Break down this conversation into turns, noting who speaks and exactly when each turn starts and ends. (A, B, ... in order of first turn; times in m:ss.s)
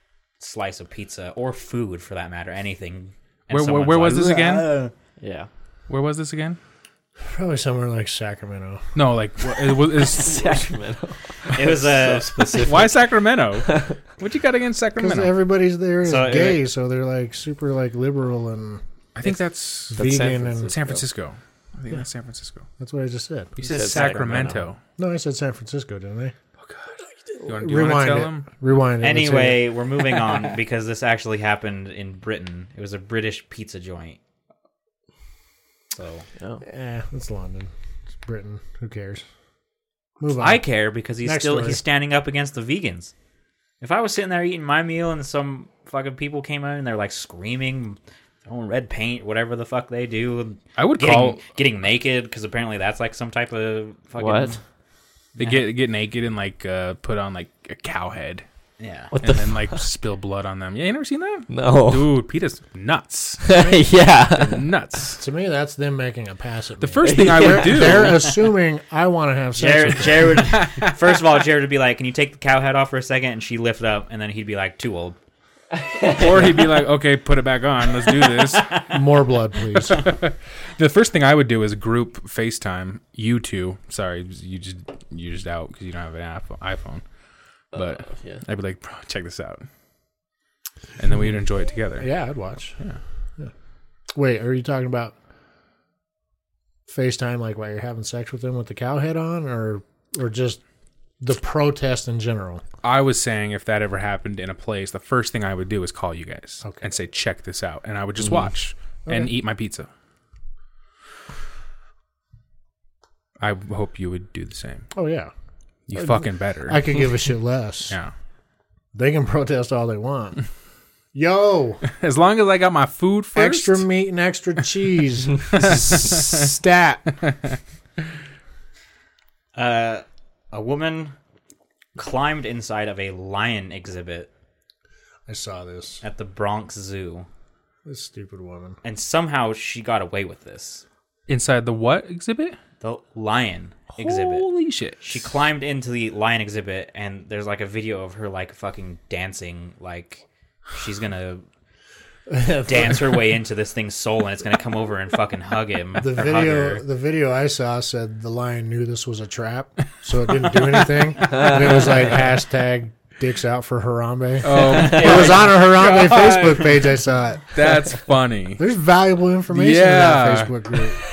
0:00.4-0:04.9 A
0:03.5-0:04.8 B
0:05.2-0:05.5 C
0:05.9-0:06.6 B
0:07.3-0:08.8 D
0:08.9-0:10.7 B
0:09.7-0:14.0 C
0:11.5-0:12.8 A
0:12.6-0:15.3 B
0:15.0-0:18.8 D
0:16.0-0:16.6 A
0:19.1-0:22.6 B
0:19.9-0:20.7 D
0:19.9-0:21.0 C
0:22.8-0:23.5 D
0:23.6-0:24.8 B
0:23.6-0:24.6 A
0:23.7-0:24.6 C
0:25.0-0:26.3 D
0:26.6-0:28.5 B
0:27.4-0:29.7 D
0:29.0-0:34.2 A
0:30.3-0:30.5 B
0:35.9-0:36.2 A
0:36.6-0:37.7 D
0:38.2-0:39.2 D
0:40.2-0:40.6 D
0:40.4-0:43.1 A
0:41.2-0:41.8 D
0:43.8-0:54.6 A
0:50.8-0:51.4 B
0:54.2-0:54.6 C
0:55.4-0:58.4 B
0:55.4-0:55.6 A
0:58.8-0:59.1 A
0:59.1-0:59.8 C
0:59.2-1:03.7 B
1:01.5-1:02.1 C
1:03.4-1:04.7 C
1:04.3-1:05.2 B
1:05.2-1:10.4 D
1:06.8-1:08.3 B
1:07.0-1:08.1 C
1:09.6-1:15.2 A
1:10.4-1:10.9 B
1:15.7-1:16.8 C
1:16.1-1:18.7 B
1:18.3-1:18.9 A
1:18.9-1:20.0 D
1:19.7-1:27.0 B
1:27.7-1:28.4 C
1:27.7-1:29.6 B
1:31.0-1:32.1 B
1:32.0-1:32.8 D
1:34.1-1:35.1 D
1:36.9-1:40.6 D
1:41.2-1:42.6 D
1:42.8-1:49.9 B
1:48.2-1:48.5 C
1:49.0-1:49.3 D
1:53.4-1:54.9 B
1:54.9-1:55.3 D
1:55.9-1:57.1 B
1:55.9-1:58.0 D
1:58.9-2:00.4 D
2:01.1-2:01.8 D
2:01.9-2:03.8 B
2:03.3-2:07.0 D
2:05.5-2:06.4 B
2:09.5-2:11.1 A
2:12.0-2:14.3 A
2:15.3-2:16.0 D
2:16.0-2:17.3 A
2:17.8-2:18.8 D
2:18.8-2:20.8 A
2:21.3-2:22.6 B
2:22.8-2:24.5 A
2:24.0-2:25.1 B
2:25.0-2:31.4 A
2:32.3-2:33.0 D
2:32.6-2:36.8 A
2:36.0-2:48.0 D
2:40.6-2:41.1 B
2:41.3-2:41.9 C
2:44.4-2:48.6 B
2:44.5-2:45.3 C
2:48.6-2:51.0 D
2:49.5-2:50.6 B